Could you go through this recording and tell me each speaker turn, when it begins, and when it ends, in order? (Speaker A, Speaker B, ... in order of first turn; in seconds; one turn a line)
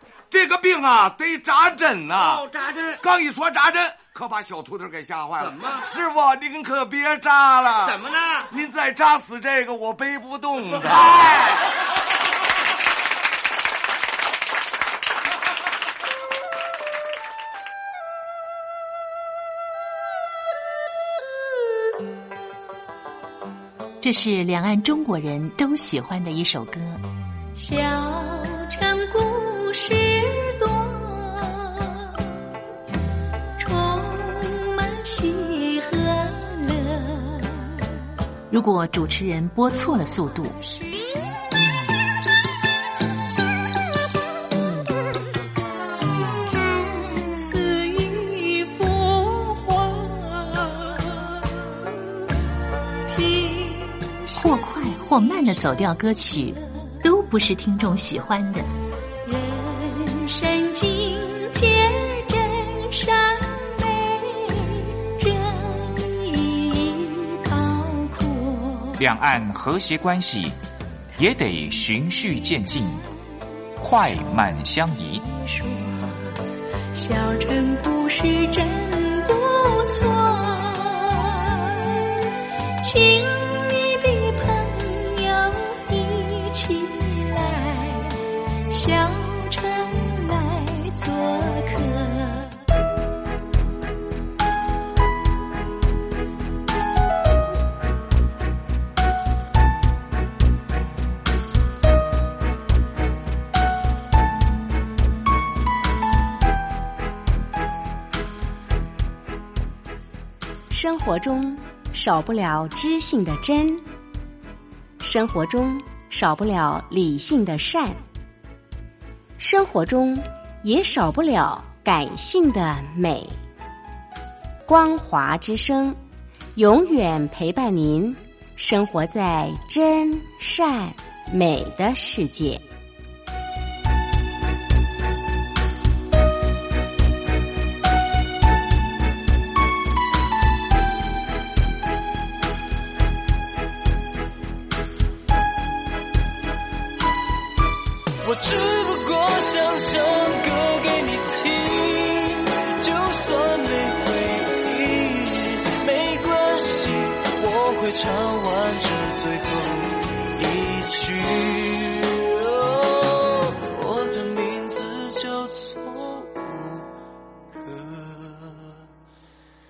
Speaker A: 0.3-2.4
Speaker B: 2.1-3.0
Speaker A: 3.0-8.0
Speaker B: 5.4-5.9
Speaker B: 7.8-8.5
Speaker A: 8.5-11.4
Speaker B: 10.8-11.7
Speaker C: 24.0-27.0
Speaker D: 27.5-32.3
Speaker D: 33.6-37.8
Speaker C: 38.5-40.5
Speaker D: 40.7-41.0
Speaker D: 46.5-51.9
Speaker D: 53.1-54.5
Speaker C: 54.3-58.7
Speaker D: 59.2-69.0
Speaker E: 69.0-70.6
Speaker E: 71.2-73.0
Speaker E: 73.8-75.2
Speaker D: 75.3-76.2
Speaker D: 76.9-82.1
Speaker D: 82.8-92.6
Speaker F: 110.7-113.8
Speaker F: 115.0-118.0
Speaker F: 119.4-123.4
Speaker F: 124.7-126.0
Speaker F: 126.5-132.6
Speaker G: 148.2-166.9
Speaker G: 167.5-168.6